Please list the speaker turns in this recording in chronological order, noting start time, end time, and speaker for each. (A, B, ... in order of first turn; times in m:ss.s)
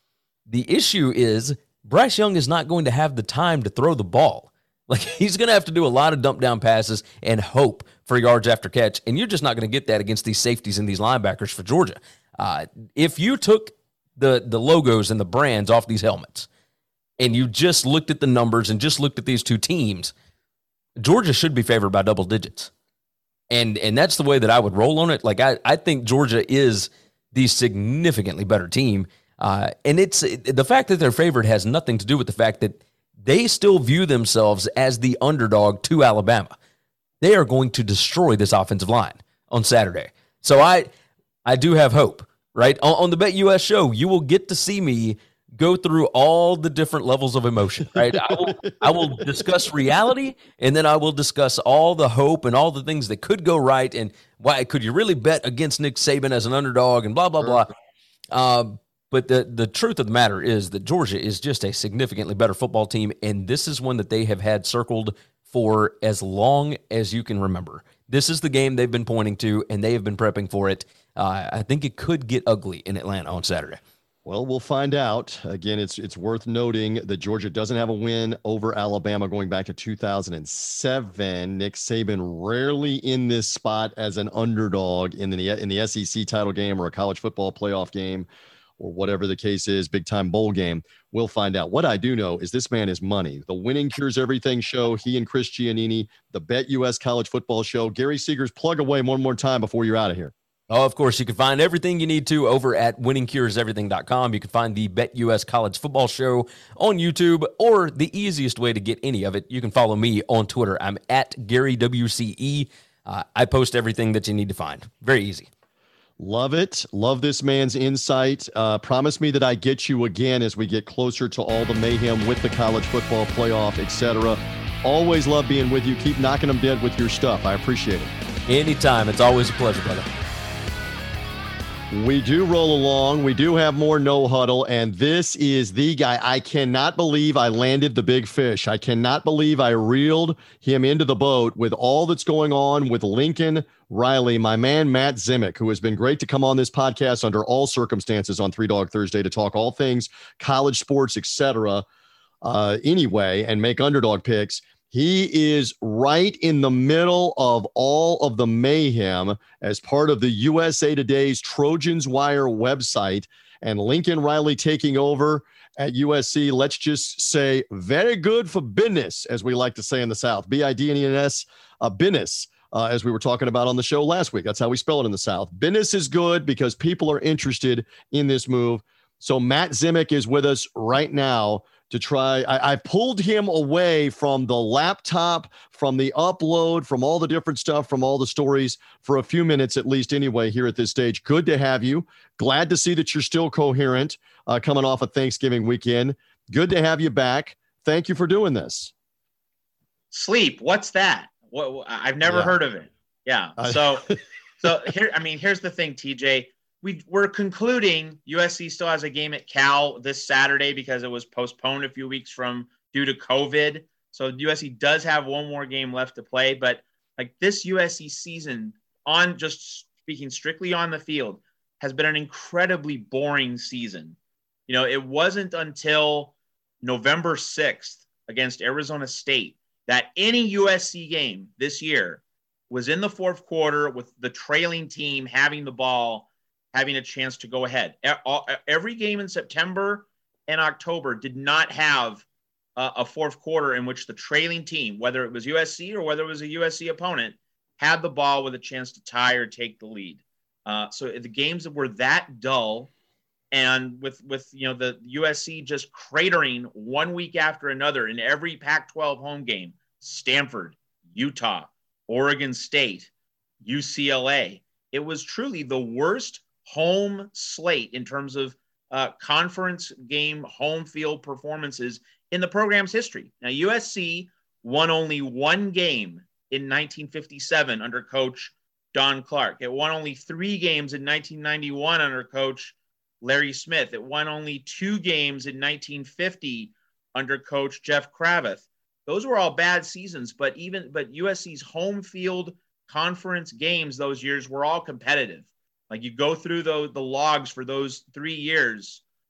0:00.5-0:16.5 A
0:17.2-0:20.1 A
0:21.0-0:22.7 A
0:23.5-0:36.6 A
0:37.2-0:40.9 A
0:41.4-0:57.7 A
0:48.1-0:49.5 B
0:58.3-1:13.8 A
1:14.2-1:28.3 B
1:28.8-1:40.3 B
1:40.7-1:55.5 A
1:56.2-2:08.1 B
2:08.5-2:10.2 A
2:11.9-2:31.8 B
2:32.4-3:18.9 B
3:20.1-3:24.0 C
3:22.2-3:22.6 B
3:23.6-3:24.2 B
3:24.6-3:44.2 C
3:44.7-4:02.2 C
4:02.8-4:12.9 C
4:13.5-4:23.1 C
4:23.6-4:59.0 C